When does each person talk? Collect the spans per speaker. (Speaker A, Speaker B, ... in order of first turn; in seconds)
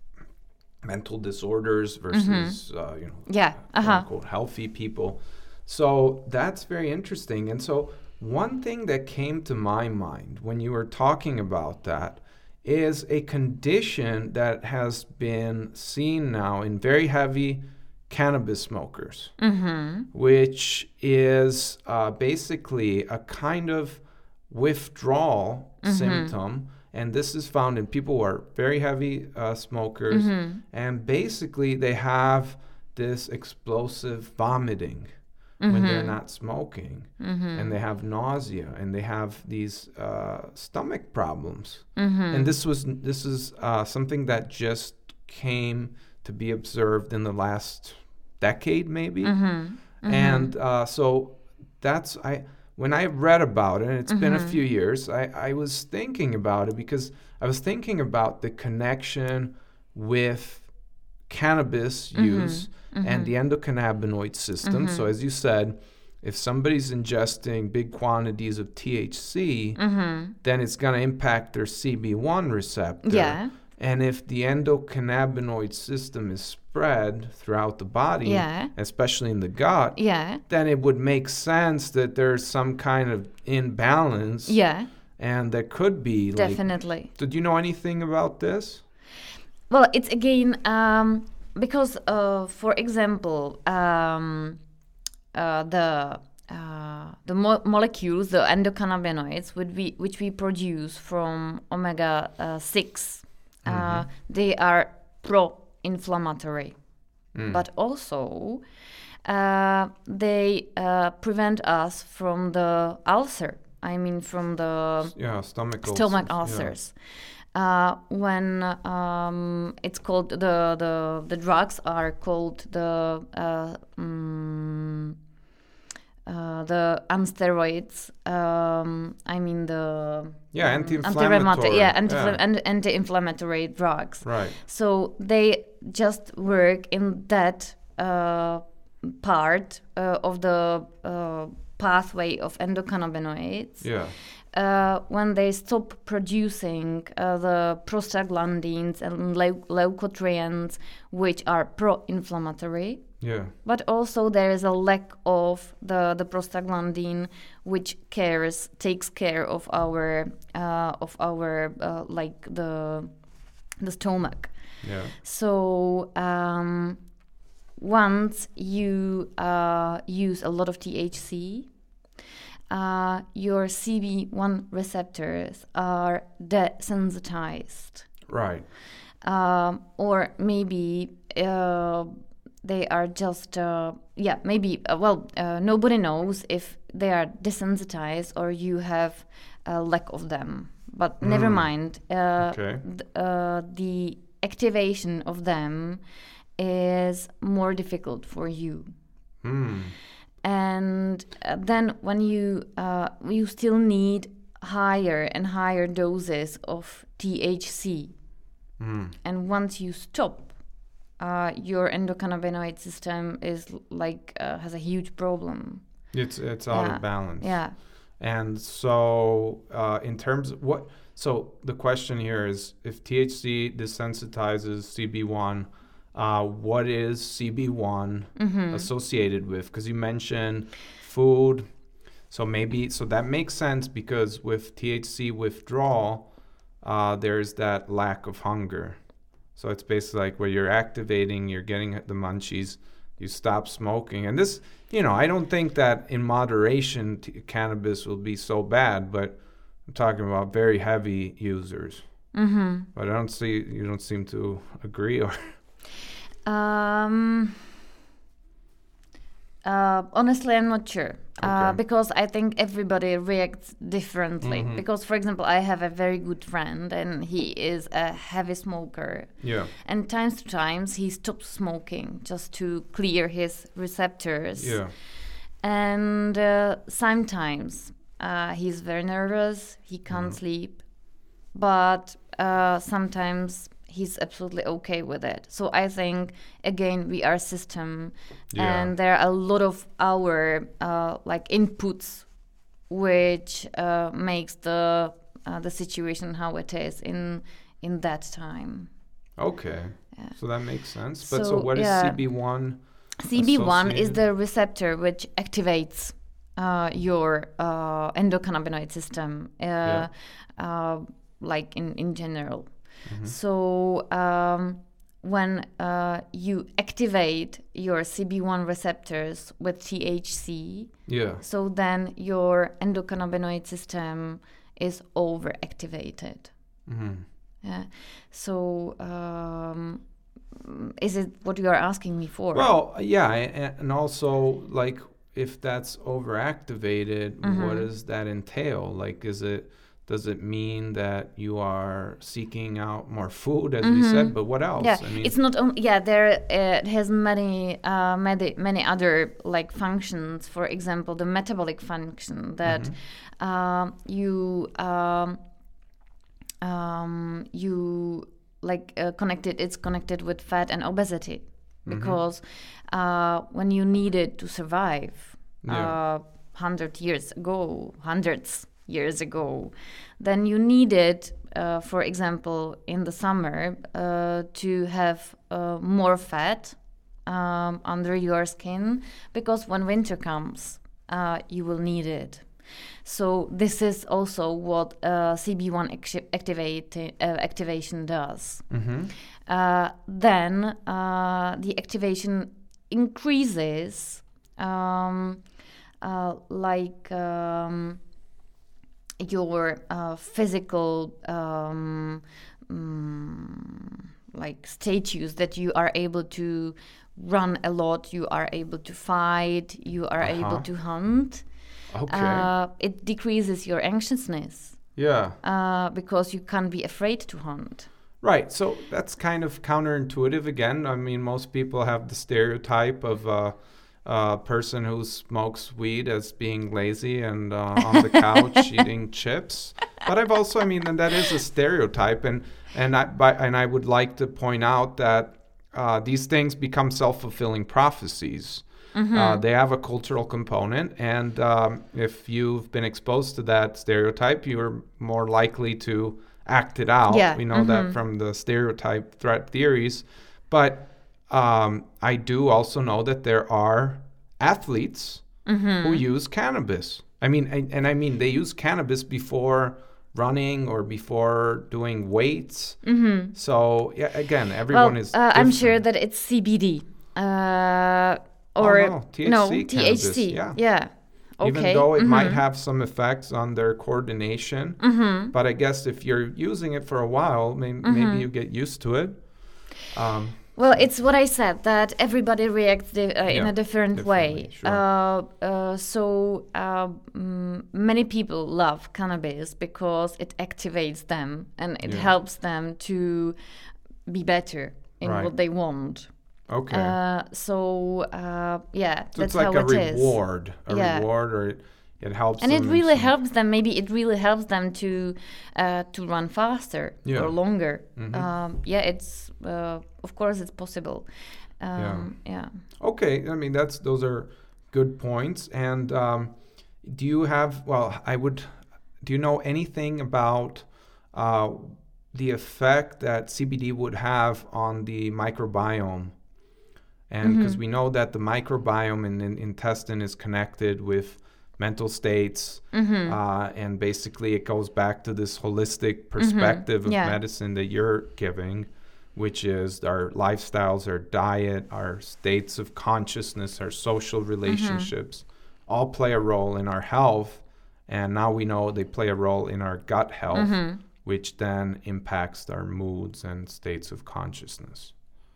Speaker A: 0.8-19.4, 20.1-35.1, 35.6-60.7, 61.3-69.8, 70.4-84.6, 85.2-88.8, 103.6-104.1, 107.3-107.6, 115.1-116.7, 130.5-132.4, 134.2-134.6, 143.8-144.2, 153.2-153.5, 164.8-165.1, 178.3-178.7, 191.2-191.7, 192.4-192.8, 199.4-199.9, 208.8-209.1, 216.1-231.7, 232.3-239.0, 239.5-252.3, 252.9-255.6, 261.4-261.8, 264.4-264.8, 269.4-269.7, 274.6-274.9, 280.1-280.4, 288.5-288.9, 299.4-304.2, 313.1-313.4, 321.1-321.4, 326.9-327.2, 332.5-345.3, 352.6-352.9, 361.9-362.2, 365.6-365.9, 388.7-389.1, 410.2-410.6, 411.9-412.5, 414.9-415.4, 418.2-465.8, 468.6-470.6, 471.4-480.9, 483.3-484.8, 495.0-495.3, 496.5-496.9, 499.1-503.1, 507.0-508.2, 511.8-512.1, 512.7-526.1, 527.1-554.9
Speaker B: 2.1-4.1, 19.4-20.1, 25.8-26.3, 30.1-30.6, 35.6-36.2, 37.2-37.7, 42.0-42.5, 49.2-50.5, 54.1-54.6, 62.1-63.3, 64.6-65.1, 69.8-70.3, 73.0-73.5, 78.2-78.7, 80.0-80.4, 84.5-84.9, 86.3-87.1, 89.7-94.6, 95.3-106.8, 107.5-108.6, 109.2-115.2, 115.7-125.1, 126.2-163.3, 163.8-167.0, 167.8-171.7, 172.7-178.1, 179.2-182.1, 182.6-196.0, 196.6-198.9, 200.4-208.1, 209.2-210.6, 211.2-215.8, 216.7-217.8, 228.3-228.9, 252.3-252.9, 256.4-257.6, 259.6-274.9, 275.6-280.8, 281.5-292.3, 292.9-298.9, 300.1-300.4, 301.1-302.2, 303.2-326.5, 327.6-330.0, 330.6-332.7, 337.4-337.9, 343.8-355.4, 356.6-388.7, 389.4-395.4, 396.0-398.0, 399.2-411.5, 412.1-417.9, 427.9-428.6, 438.9-439.4, 447.1-447.9, 455.4-456.0, 462.8-463.3, 464.7-472.4, 474.8-475.3, 477.8-478.2, 480.6-493.3, 494.1-496.1, 496.7-501.0, 502.4-511.1, 511.6-512.6, 527.2-527.6, 532.7-533.2, 536.2-537.2, 544.5-544.9, 550.3-550.8